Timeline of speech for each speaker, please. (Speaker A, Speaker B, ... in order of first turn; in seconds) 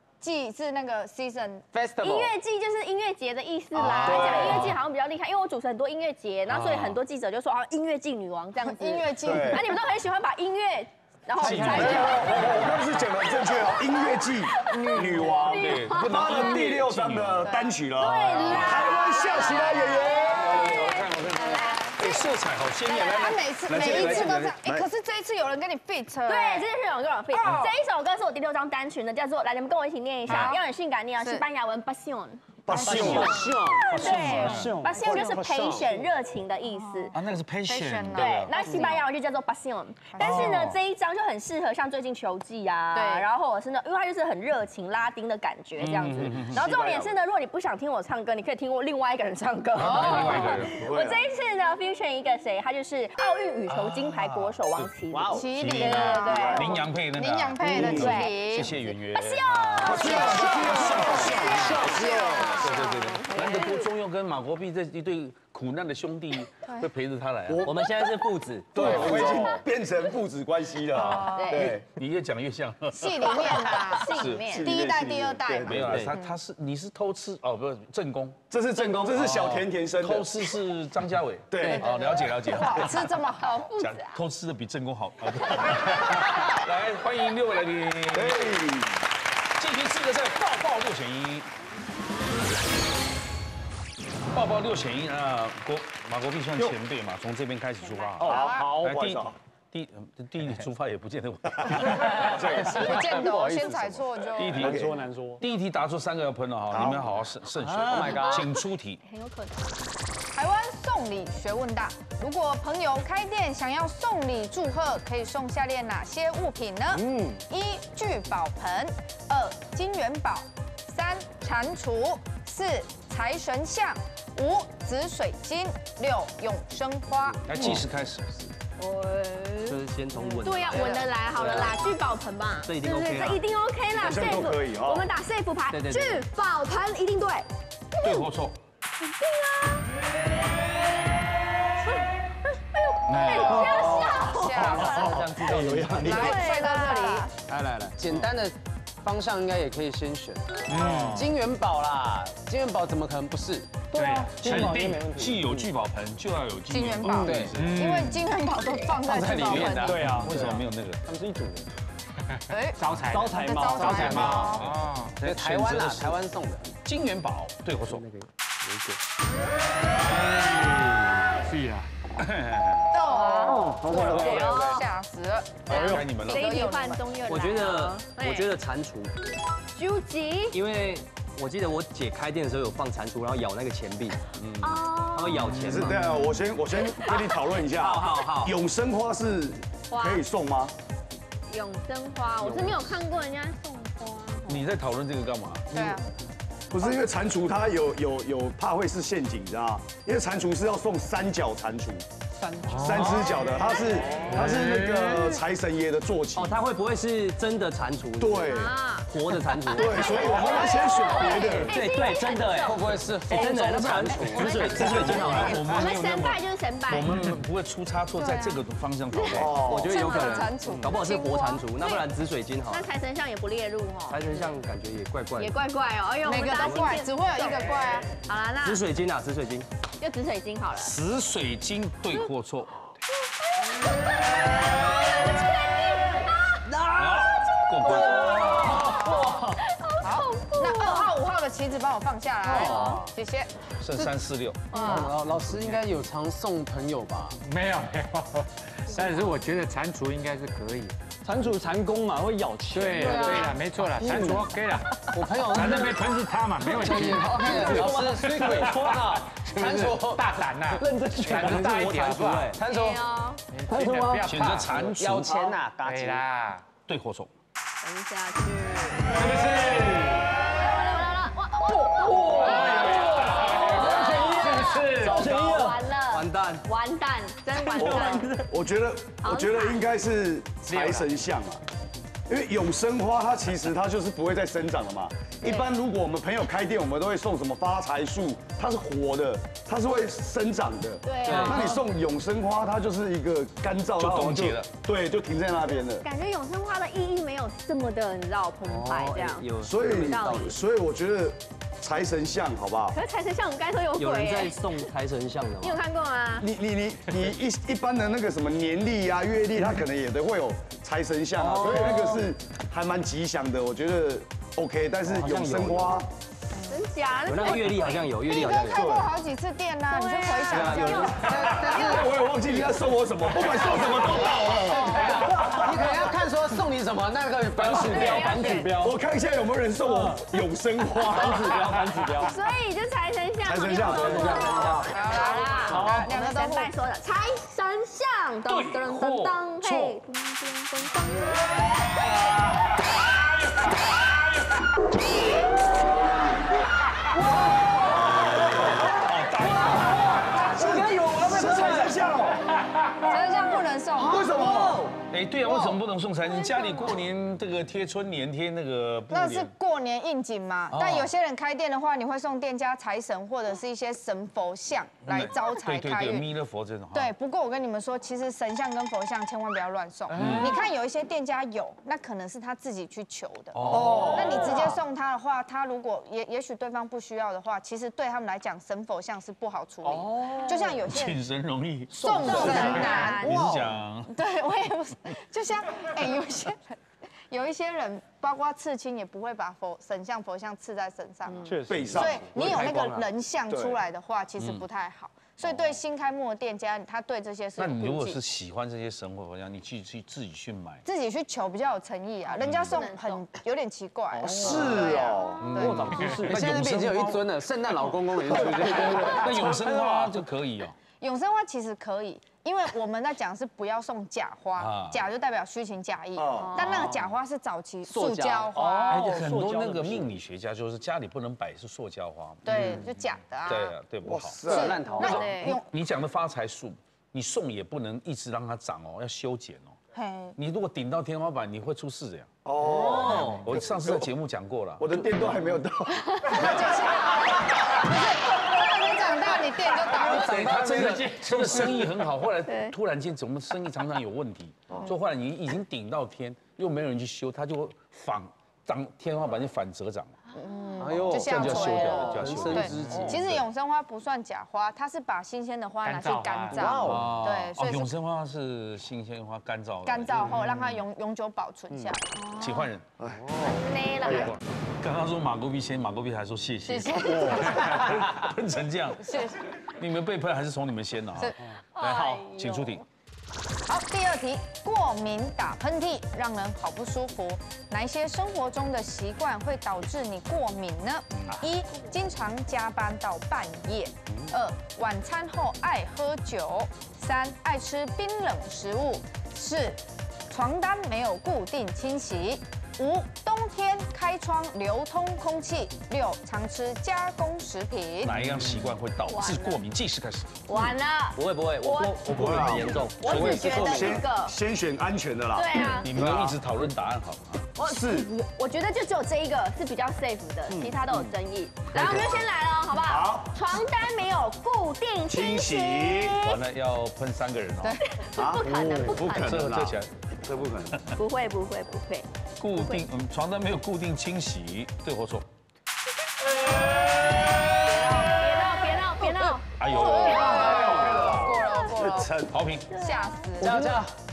Speaker A: 0.2-1.7, 8.6-9.8, 11.5-12.4, 14.6-15.5, 17.4-17.7, 18.2-20.5, 21.4-22.1, 22.9-26.7, 27.3-27.8, 30.3-30.6, 32.7-34.7, 36.8-39.1, 40.1-40.8, 42.9-43.3, 49.8-50.4, 55.3-58.8, 59.9-62.5, 71.0-71.8, 72.9-76.4, 81.6-83.7, 98.2-98.8, 102.5-104.9, 110.3-127.8, 130.7-131.1, 143.3-145.2, 145.9-147.3, 156.7-160.2, 162.5-164.8, 172.9-177.0, 195.7-196.1, 218.2-218.6, 219.7-221.5, 226.2-228.1, 238.0-243.5, 318.4-322.0, 334.4-336.7, 353.0-355.8, 359.1-366.3, 366.9-381.3, 381.9-386.8, 387.3-398.2, 400.9-406.1, 410.9-419.1, 422.4-423.8, 424.5-425.7, 429.9-430.4, 436.3-440.5, 450.4-457.9, 459.8-462.5, 466.7-468.0, 469.0-469.4, 473.7-498.2, 503.4-503.8, 527.8-528.1, 529.0-532.2, 532.7-533.6
Speaker B: 1.7-2.3, 32.7-35.9, 55.1-55.5, 69.0-69.5, 102.5-104.1, 107.6-108.5, 147.9-153.8, 157.2-157.6, 159.0-160.6, 165.2-166.7, 212.4-214.9, 242.5-243.1, 244.8-247.4, 255.1-256.1, 256.6-260.4, 262.6-263.0, 264.7-266.2, 321.1-322.2, 324.9-328.6, 406.2-409.4, 417.9-418.5, 424.5-425.4, 450.8-453.4, 456.5-457.1
Speaker C: 2.0-16.7, 18.0-22.3, 26.3-32.4, 33.9-37.1, 38.1-56.8, 57.7-63.9, 71.0-71.8, 73.2-74.7, 83.4-84.2, 107.9-109.9, 128.8-129.8, 130.4-138.3, 139.0-139.9, 142.5-145.4, 146.0-147.3, 173.0-174.8, 175.7-178.5, 179.8-180.6, 184.6-185.4, 189.9-190.2, 191.5-194.7, 208.5-213.5, 214.2-217.2, 219.1-222.1, 222.7-224.5, 225.4-228.8, 230.0-230.9, 233.5-236.7, 237.6-241.1, 244.7-245.1, 253.0-253.6, 262.7-263.4, 267.8-269.5, 270.6-278.3, 279.2-279.8, 285.4-285.7, 291.1-291.9, 295.8-300.5, 302.9-304.9, 305.6-306.5, 316.7-319.1, 319.9-321.5, 324.0-324.9, 327.7-328.7, 332.2-341.7, 380.2-380.8, 382.0-383.6, 391.2-391.6, 402.4-403.2, 416.4-417.0, 424.9-425.6, 442.5-442.7, 450.6-451.0, 463.4-464.4, 471.8-472.9, 499.1-499.6, 500.5-504.4, 505.4-505.9, 507.6-516.4, 517.9-519.3, 521.0-522.9, 527.7-532.0, 532.7-533.4
Speaker D: 3.8-4.8, 9.2-9.7, 11.4-20.8, 23.7-24.9, 32.7-33.5, 35.0-35.9, 46.5-47.1, 50.0-51.2, 56.2-56.7, 57.6-58.1, 59.8-62.4, 68.8-71.8, 74.5-76.1, 78.5-80.3, 81.5-82.0, 88.1-88.9, 98.2-99.4, 101.6-103.0, 104.6-104.9, 106.7-107.2, 133.9-135.1, 143.3-146.3, 185.6-190.8, 196.7-202.1, 202.7-206.6, 208.2-208.7, 209.8-211.8, 219.3-219.9, 277.8-281.6, 282.3-296.1, 299.6-303.0, 306.4-316.1, 321.5-325.8, 328.8-331.8, 333.4-334.9, 350.3-352.4, 353.9-354.9, 373.7-374.3, 391.7-392.7, 393.5-393.8, 404.3-405.6, 416.1-416.7, 424.1-424.9, 432.4-434.0, 434.8-436.8, 463.0-464.4, 502.1-506.4, 507.6-508.1, 511.7-512.0, 512.7-513.4, 515.1-516.2, 518.1-520.8, 530.5-532.4
Speaker E: 6.5-7.0, 150.7-151.3, 153.9-155.1, 157.5-158.3, 162.8-165.2, 170.4-171.9, 202.6-205.4, 247.4-251.0, 252.7-262.6, 263.5-264.8, 265.8-266.7, 269.2-270.1, 272.2-275.2, 280.7-281.1, 370.1-370.6, 439.8-442.0, 452.7-453.1, 455.8-456.7
Speaker F: 11.4-12.6, 20.6-21.3, 33.9-35.4, 38.7-39.0, 98.2-99.0, 104.5-105.4, 116.9-117.4, 145.5-146.1, 147.5-147.9, 150.7-151.3, 153.9-155.7, 157.0-157.5, 159.8-161.7, 162.9-164.4, 173.4-174.7, 175.7-176.0, 202.4-203.2, 211.6-215.5, 220.6-221.0, 238.2-238.5, 239.0-239.6, 242.5-243.0, 251.2-255.7, 256.7-259.0, 260.8-262.2, 263.7-264.5, 269.2-270.0, 272.0-275.9, 325.0-326.1, 327.6-329.0, 329.8-330.2, 330.9-332.4, 335.7-336.1, 373.8-374.1, 391.4-392.1, 404.1-404.9, 405.5-407.2, 408.4-410.1, 418.6-419.3, 460.4-460.7, 533.4-533.9
Speaker G: 15.4-17.5, 20.4-24.6, 34.0-34.8, 37.1-38.6, 40.2-40.8, 45.8-46.7, 49.8-50.8, 53.7-54.2, 54.8-67.8, 68.8-69.2, 71.8-74.6, 75.6-88.5, 89.6-91.5, 94.3-102.4, 104.3-109.0, 127.5-128.3, 138.0-138.6, 143.1-143.7, 154.4-158.1, 160.1-161.0, 164.3-166.2, 166.8-168.1, 172.2-172.9, 175.7-176.5, 184.4-186.0, 194.5-196.0, 214.4-219.7, 230.8-232.8, 237.0-238.9, 243.8-244.7, 264.2-265.5, 266.8-267.3, 294.0-294.7, 338.4-339.9, 348.5-350.9, 355.1-359.5, 360.7-361.1, 365.0-367.1, 370.1-370.6, 373.5-374.5, 380.9-384.1, 394.4-394.7, 397.6-400.8, 402.4-402.9, 405.4-407.2, 409.1-410.8, 414.6-415.0, 418.9-422.9, 423.5-424.5, 425.4-429.8, 430.4-432.3, 433.4-435.3, 439.9-450.1, 451.1-453.5, 456.9-460.4, 462.4-462.9, 464.8-472.9, 481.1-481.4, 498.0-500.6, 505.8-507.5, 516.2-517.8, 519.0-519.9, 522.4-525.3, 529.6-531.3, 531.9-532.7
Speaker H: 67.6-69.6, 129.7-131.8, 132.7-133.4, 135.7-136.2, 144.8-146.4, 167.9-168.9, 177.3-179.1, 180.5-184.2, 185.1-186.1, 187.7-188.6, 206.4-210.9, 213.3-215.6, 219.7-222.8, 224.1-225.5, 228.6-229.7, 261.3-262.6, 276.1-276.6, 277.9-278.4, 291.2-291.7, 298.6-300.6, 304.0-305.8, 311.4-312.2, 315.1-316.0, 317.3-318.9, 320.5-321.3, 391.9-393.1, 418.0-420.2, 432.6-433.5, 501.2-503.8, 533.4-533.9